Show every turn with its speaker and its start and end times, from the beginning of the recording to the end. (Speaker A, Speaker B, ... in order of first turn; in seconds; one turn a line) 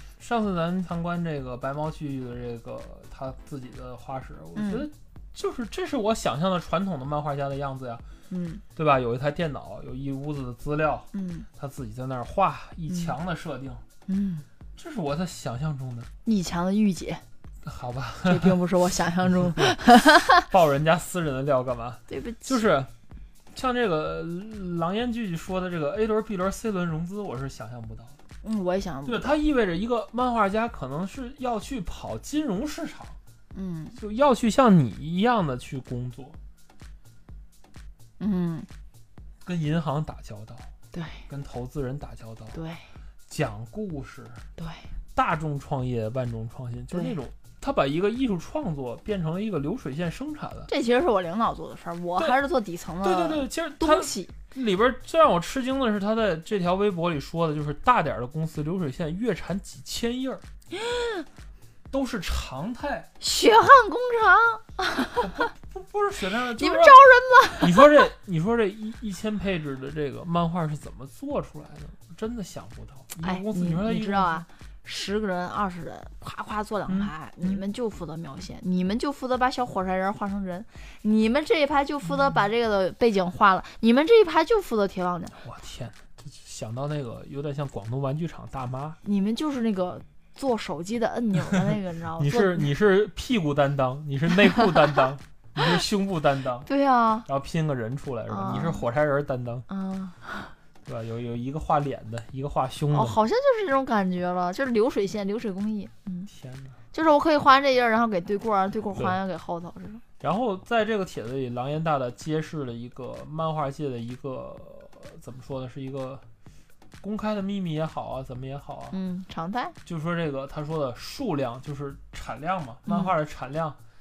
Speaker A: 0.2-8.0
Speaker B: 4.5-4.9
Speaker B: 8.3-8.6
Speaker A: 8.7-13.8
Speaker B: 11.1-11.5
Speaker B: 12.9-13.1
Speaker B: 14.1-14.4
Speaker A: 14.8-16.1
Speaker B: 16.2-17.2
Speaker A: 17.6-18.6
Speaker B: 18.2-20.5
Speaker A: 19.3-19.8
Speaker A: 20.4-22.9
Speaker B: 22.1-22.6
Speaker A: 23.5-28.2
Speaker B: 28.4-29.4
Speaker A: 29.0-33.2
Speaker B: 33.5-34.0
Speaker A: 34.0-36.4
Speaker B: 38.2-38.7
Speaker A: 39.4-40.7
Speaker B: 40.9-41.2
Speaker A: 41.3-42.6
Speaker B: 42.5-42.9
Speaker A: 43.3-44.4
Speaker B: 44.6-44.9
Speaker A: 45.1-50.7
Speaker B: 46.9-47.2
Speaker B: 50.7-54.3
Speaker A: 53.0-60.4
Speaker B: 60.7-61.3
Speaker A: 61.9-63.1
Speaker B: 63.2-65.4
Speaker A: 65.2-67.0
Speaker B: 66.5-68.0
Speaker A: 67.6-74.5
Speaker B: 73.2-85.4
Speaker A: 76.9-77.6
Speaker A: 85.4-89.0
Speaker B: 89.0-92.7
Speaker A: 92.2-96.7
Speaker B: 94.3-95.0
Speaker B: 96.7-97.3
Speaker A: 97.2-99.7
Speaker B: 98.3-98.8
Speaker B: 99.7-100.5
Speaker A: 100.8-103.2
Speaker B: 102.9-106.3
Speaker A: 106.3-106.8
Speaker B: 106.9-110.0
Speaker A: 110.2-116.2
Speaker A: 117.0-119.0
Speaker B: 118.9-119.8
Speaker A: 119.8-123.8
Speaker B: 122.8-123.1